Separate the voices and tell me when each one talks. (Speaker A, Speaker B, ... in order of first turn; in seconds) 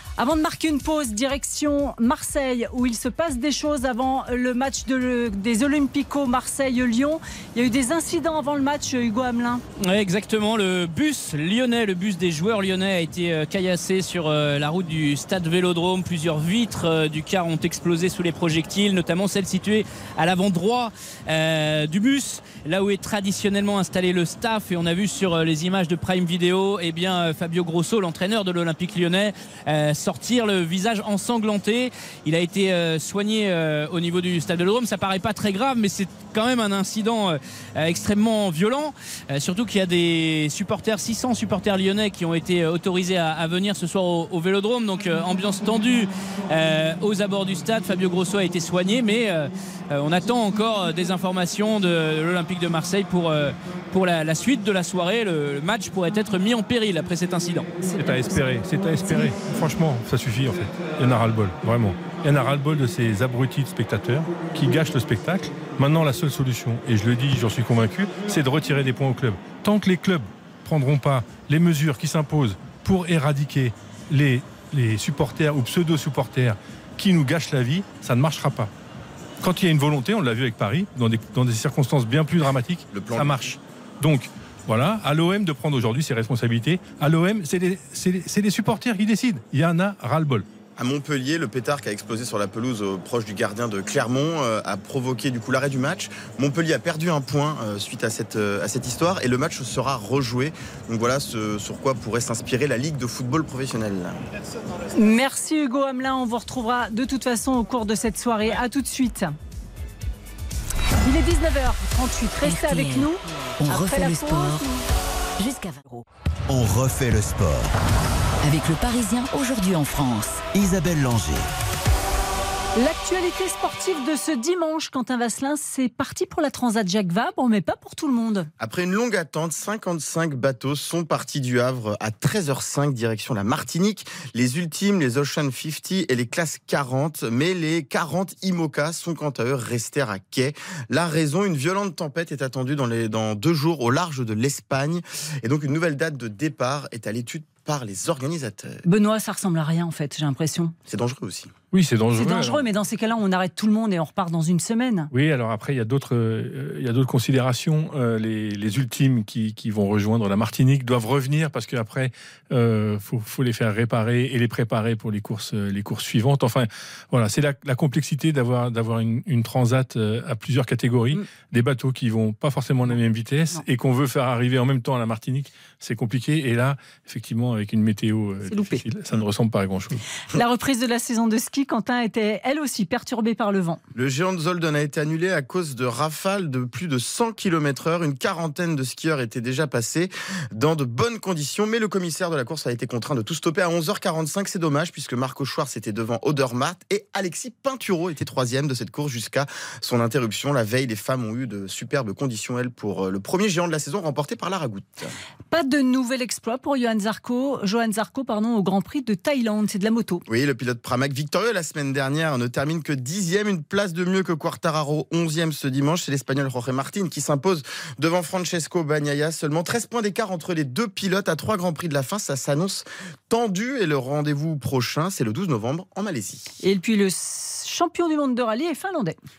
Speaker A: 0.2-9.6, 57.8-58.3, 59.0-59.3, 105.0-109.3, 111.0-114.8, 122.8-128.5, 148.8-150.7, 152.1-155.1, 178.5-178.8, 180.3-183.8, 205.5-210.2, 226.6-229.2
Speaker B: 9.8-57.7
Speaker C: 57.9-78.7, 79.4-90.5, 151.7-152.6, 155.1-180.0
Speaker D: 82.9-83.5, 90.8-104.2, 128.6-148.8, 150.9-151.5, 183.9-205.1, 210.3-226.5
Speaker E: 112.4-114.7, 115.4-116.0, 118.4-120.5
Speaker F: 116.5-117.7, 120.5-121.5